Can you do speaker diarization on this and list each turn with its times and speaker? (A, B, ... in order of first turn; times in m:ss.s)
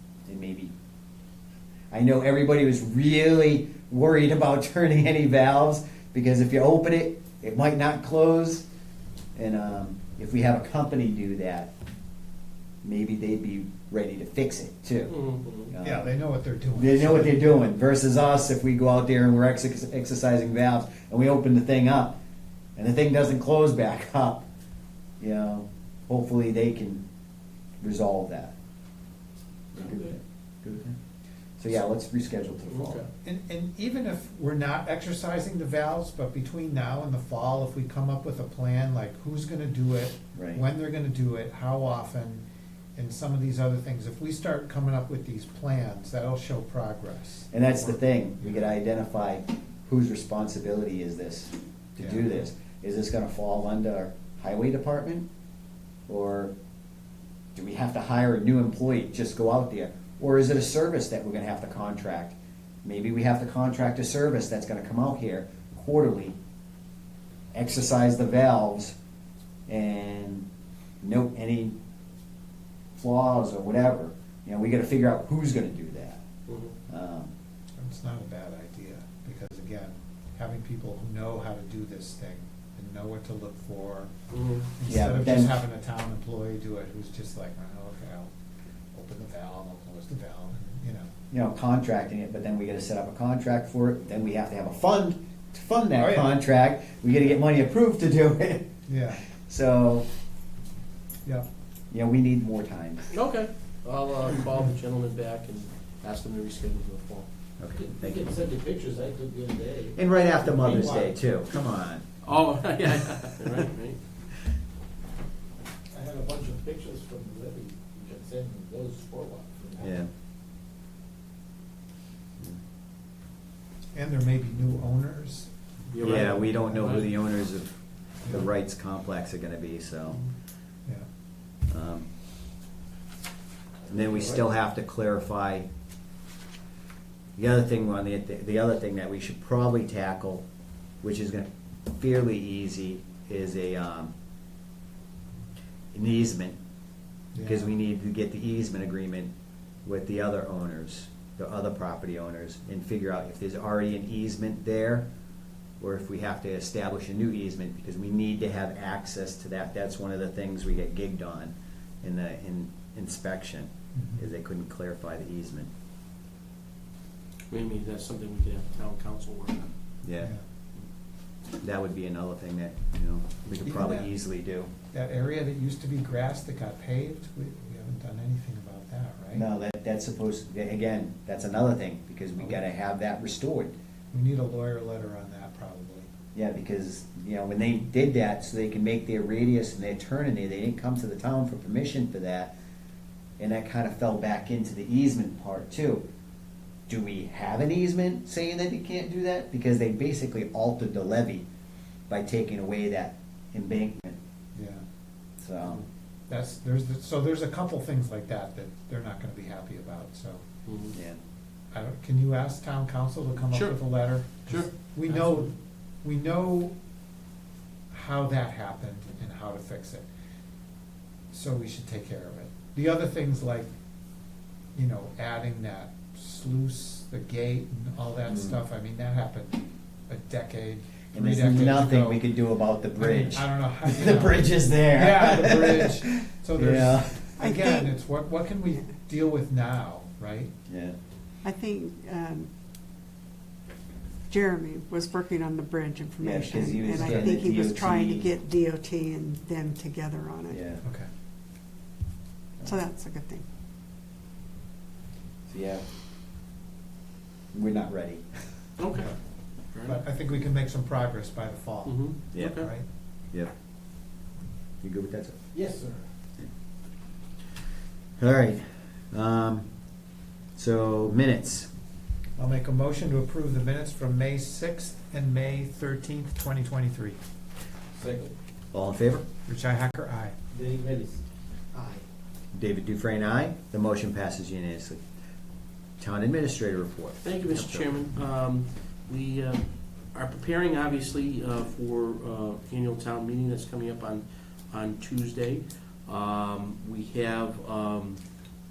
0:00.3-0:00.7 A
0:01.9-0:08.6 A
0:09.4-0:11.7 A
0:12.8-0:15.1 A
0:15.1-0:15.7 B
0:15.7-0:16.1 A
0:15.8-0:17.6 C
0:16.8-0:22.2 A
0:22.8-0:24.5 A
0:25.2-0:27.0 A
0:27.8-0:28.5 A
0:29.7-0:30.9 A
0:29.8-0:30.1 B
0:31.6-0:33.0 A
0:32.7-0:33.1 B
0:33.2-0:42.4 C
0:40.3-0:40.6 A
0:43.0-0:48.7 C
0:47.5-0:55.2 A
0:52.0-0:52.4 C
0:56.1-0:56.5 A
0:57.6-1:06.4 A
1:07.5-1:09.0 A
1:09.7-1:10.4 A
1:11.0-1:11.8 A
1:13.0-1:16.2 A
1:16.5-1:16.8 B
1:16.9-1:17.3 A
1:17.8-1:24.1 C
1:24.3-1:24.7 B
1:24.8-1:28.3 C
1:24.8-1:25.6 A
1:28.9-1:31.1 C
1:31.3-1:38.7 A
1:36.0-1:36.4 C
1:38.9-1:39.3 C
1:39.3-1:40.1 A
1:41.9-1:43.1 A
1:43.1-1:47.3 B
1:47.6-1:48.3 A
1:47.7-1:51.1 D
1:49.9-1:52.0 A
1:52.2-1:54.0 B
1:55.9-2:00.0 D
1:59.8-2:00.1 A
2:04.0-2:05.5 C
2:05.9-2:07.1 B
2:06.0-2:10.2 A
2:06.5-2:07.0 C
2:11.7-2:12.1 A
2:13.9-2:15.7 A
2:17.4-2:20.4 A
2:21.0-2:24.1 A
2:25.9-2:26.6 A
2:27.3-2:27.7 C
2:27.4-2:29.3 A
2:29.8-2:35.1 A
2:35.8-2:45.7 A
2:43.9-2:44.2 C
2:47.5-2:49.7 B
2:50.0-2:50.3 A
2:51.6-2:54.7 A
2:53.6-2:54.1 C
2:54.9-2:59.5 C
2:59.4-3:03.7 A
3:04.1-3:06.1 C
3:06.3-3:12.5 A
3:13.4-3:16.0 A
3:16.9-3:21.4 A
3:22.1-3:24.2 A
3:24.6-3:24.8 C
3:25.4-3:25.8 A
3:26.3-3:30.4 C
3:30.7-3:31.0 B
3:30.9-3:31.2 A
3:31.7-3:35.5 C
3:33.5-3:35.5 B
3:36.0-3:36.7 C
3:37.9-3:40.1 C
3:41.3-3:43.7 C
3:44.8-3:52.2 C
3:48.3-3:48.6 A
3:51.1-3:57.4 A
3:53.0-4:00.5 C
3:57.4-3:58.0 E
4:00.7-4:01.0 A
4:01.4-4:02.5 E
4:04.3-4:10.6 E
4:06.2-4:08.3 A
4:07.0-4:07.3 C
4:10.5-4:10.8 A
4:10.8-4:11.1 C
4:12.6-4:13.4 E
4:15.5-4:15.8 A
4:17.5-4:18.2 A
4:18.8-4:19.1 B
4:19.7-4:20.0 B
4:19.8-4:22.8 C
4:21.9-4:22.7 B
4:22.3-4:22.6 A
4:24.8-4:25.4 A
4:25.5-4:26.0 D
4:28.2-4:29.7 A
4:30.6-4:31.7 A
4:32.4-4:37.2 C
4:38.0-4:38.3 D
4:38.7-4:39.2 A
4:39.5-4:40.4 C
4:40.5-4:42.0 D
4:42.5-4:45.0 A
4:46.0-4:47.9 A
4:47.2-4:58.2 B